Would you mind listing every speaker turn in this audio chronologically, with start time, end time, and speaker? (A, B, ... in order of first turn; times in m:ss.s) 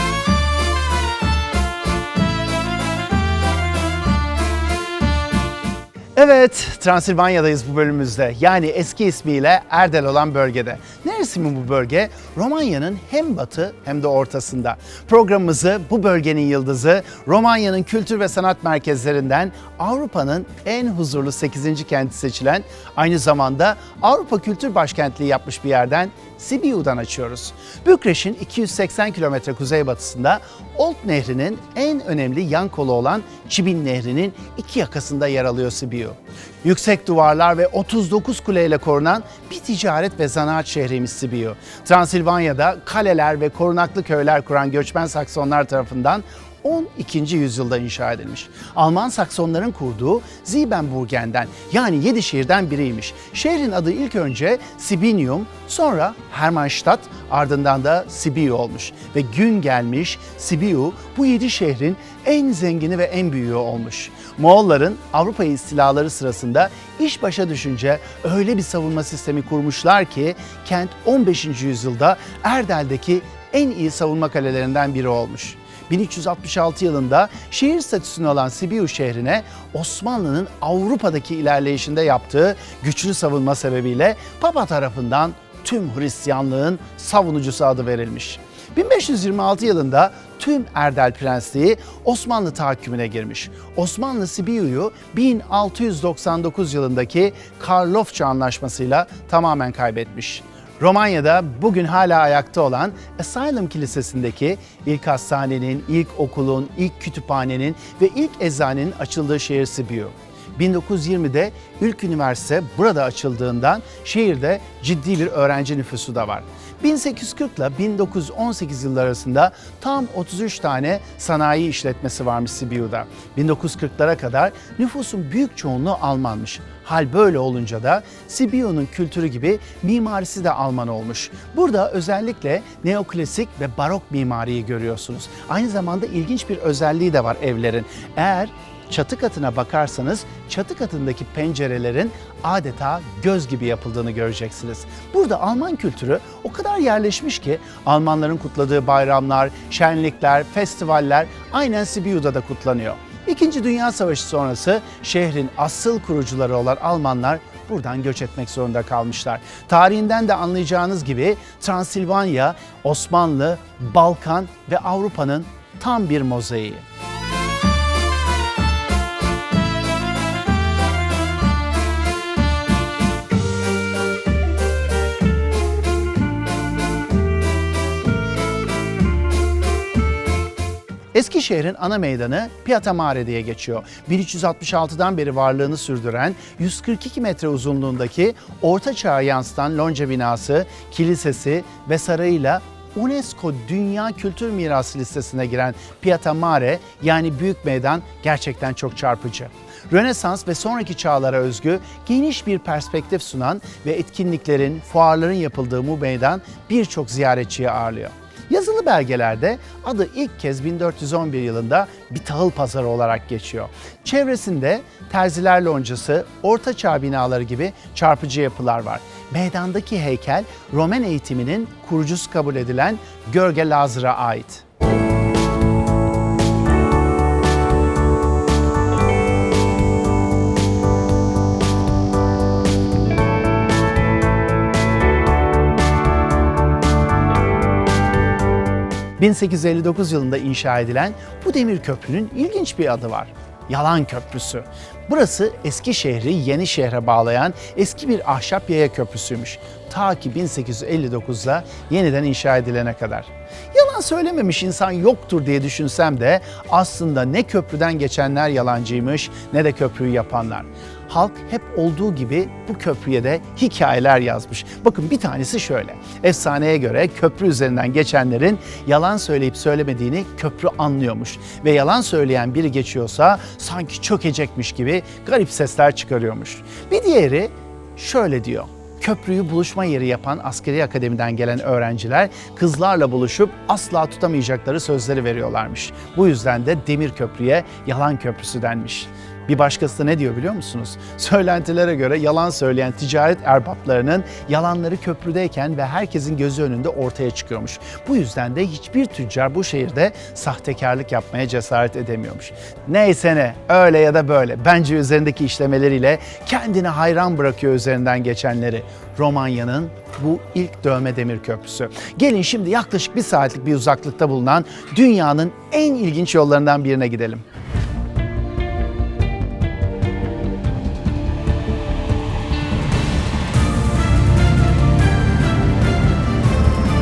0:06.2-2:46.8 A
3:01.1-3:44.6 A
3:59.2-5:17.4 A